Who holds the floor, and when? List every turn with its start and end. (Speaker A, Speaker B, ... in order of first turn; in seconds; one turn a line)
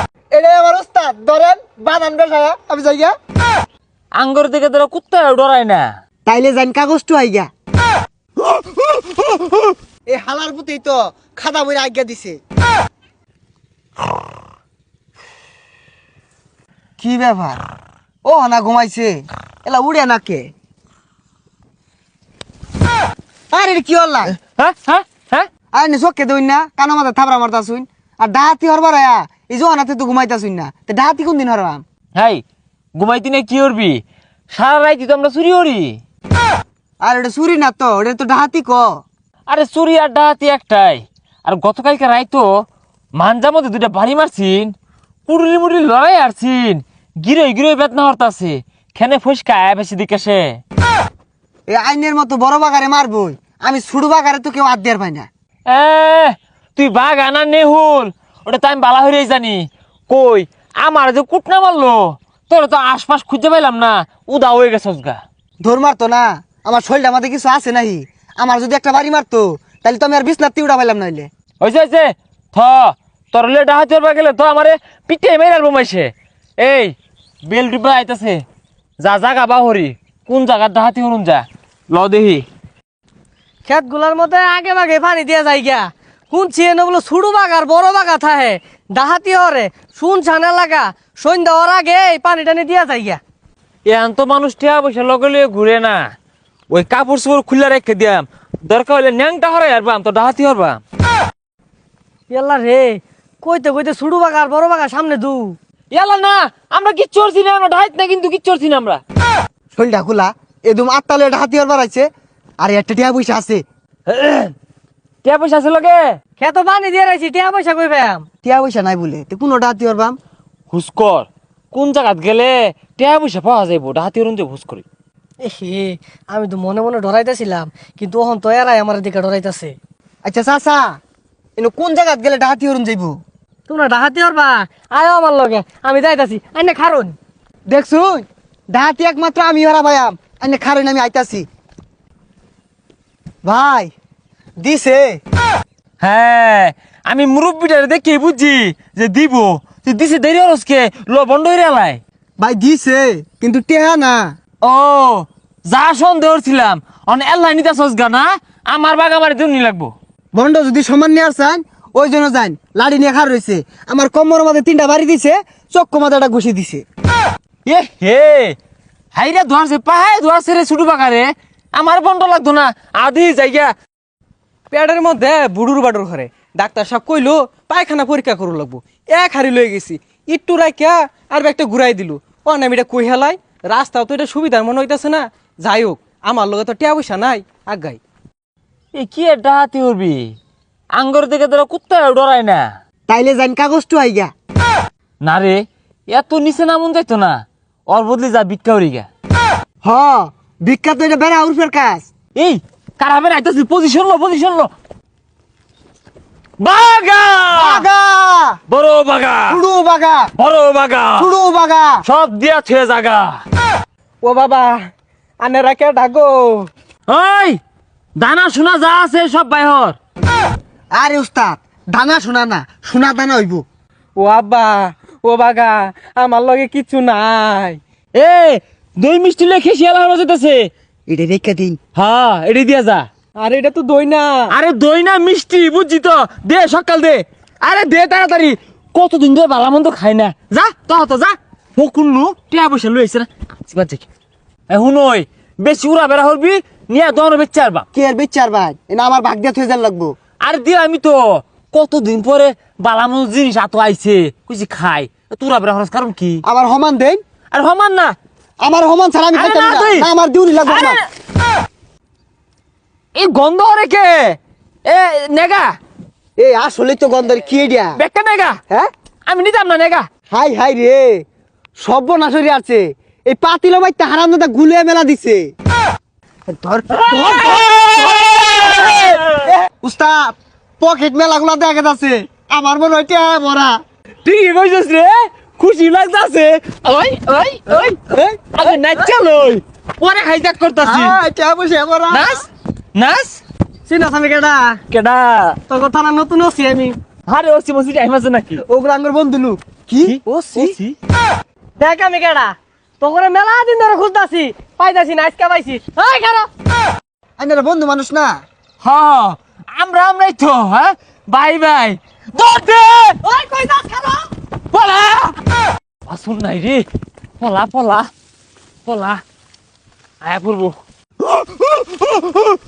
Speaker A: 0.3-3.1
Speaker B: 4.2-5.9
Speaker A: 6.3-7.5
Speaker A: 8.5-12.4
Speaker A: 17.0-17.6
Speaker A: 18.2-20.5
Speaker A: 23.5-24.4
Speaker B: 24.5-25.5
Speaker A: 25.7-31.8
Speaker B: 32.1-32.4
Speaker B: 33.0-34.0
Speaker B: 34.5-36.0
Speaker A: 37.0-39.0
Speaker B: 39.5-42.5
Speaker B: 43.2-44.7
Speaker B: 45.3-50.6
Speaker A: 51.7-55.3
Speaker B: 55.7-65.2
Speaker A: 65.6-71.3
Speaker B: 71.6-76.1
Speaker B: 76.6-76.9
Speaker B: 77.5-78.4
Speaker B: 79.0-82.5
Speaker C: 83.7-93.2
Speaker B: 93.9-96.0
Speaker B: 96.7-100.8
Speaker C: 102.3-105.6
Speaker B: 105.9-109.0
Speaker A: 109.7-112.1
Speaker A: 112.6-113.6
Speaker B: 114.1-114.5
Speaker B: 115.2-116.0
Speaker C: 116.4-118.3
Speaker A: 118.4-120.2
Speaker B: 120.7-124.8
Speaker C: 125.4-129.8
Speaker A: 130.2-131.0
Speaker A: 131.6-133.2
Speaker C: 133.7-137.2
Speaker A: 137.7-141.5
Speaker A: 143.4-143.9
Speaker A: 144.6-145.2
Speaker B: 146.0-152.0
Speaker A: 152.4-154.3
Speaker B: 154.6-159.9
Speaker A: 160.3-166.8
Speaker B: 167.7-168.6
Speaker B: 169.1-173.7
Speaker D: 174.7-188.0
Speaker B: 188.9-190.2
Speaker B: 191.0-192.7
Speaker A: 193.1-194.3
Speaker B: 195.2-199.1
Speaker A: 199.8-202.1
Speaker B: 202.4-204.7
Speaker B: 206.6-207.9
Speaker A: 207.6-208.6
Speaker B: 208.7-209.6
Speaker A: 209.5-210.3
Speaker B: 210.4-211.3
Speaker A: 211.2-212.0
Speaker B: 212.0-213.4
Speaker D: 214.2-214.8
Speaker D: 215.4-216.7
Speaker B: 217.1-217.6
Speaker B: 218.2-220.0
Speaker A: 221.0-223.6
Speaker D: 224.2-227.8
Speaker B: 228.2-230.7
Speaker A: 231.1-231.8
Speaker B: 232.0-233.1
Speaker D: 233.4-234.5
Speaker B: 234.5-244.1
Speaker B: 244.7-247.8
Speaker A: 247.9-250.1
Speaker B: 250.4-256.4
Speaker A: 256.4-257.2
Speaker B: 257.5-258.1
Speaker A: 258.6-261.0
Speaker B: 259.3-260.1
Speaker B: 260.7-261.1
Speaker B: 263.2-265.7
Speaker A: 266.4-268.0
Speaker B: 268.0-268.6
Speaker B: 269.3-270.1
Speaker A: 270.3-271.2
Speaker A: 271.8-275.5
Speaker A: 276.5-283.8
Speaker B: 276.9-279.5
Speaker B: 284.2-288.0
Speaker A: 287.9-288.8
Speaker B: 288.5-291.2
Speaker A: 290.8-292.4
Speaker B: 292.1-293.4
Speaker C: 293.9-294.8
Speaker B: 294.9-295.6
Speaker C: 295.7-297.0
Speaker B: 297.3-298.6
Speaker A: 298.7-300.8
Speaker B: 300.1-301.0
Speaker C: 301.8-306.5
Speaker A: 307.4-308.4
Speaker B: 308.8-313.2
Speaker C: 313.2-314.3
Speaker B: 314.7-315.4
Speaker B: 316.1-316.9
Speaker B: 317.4-318.1
Speaker B: 318.9-319.2
Speaker B: 320.2-320.8
Speaker B: 321.6-322.4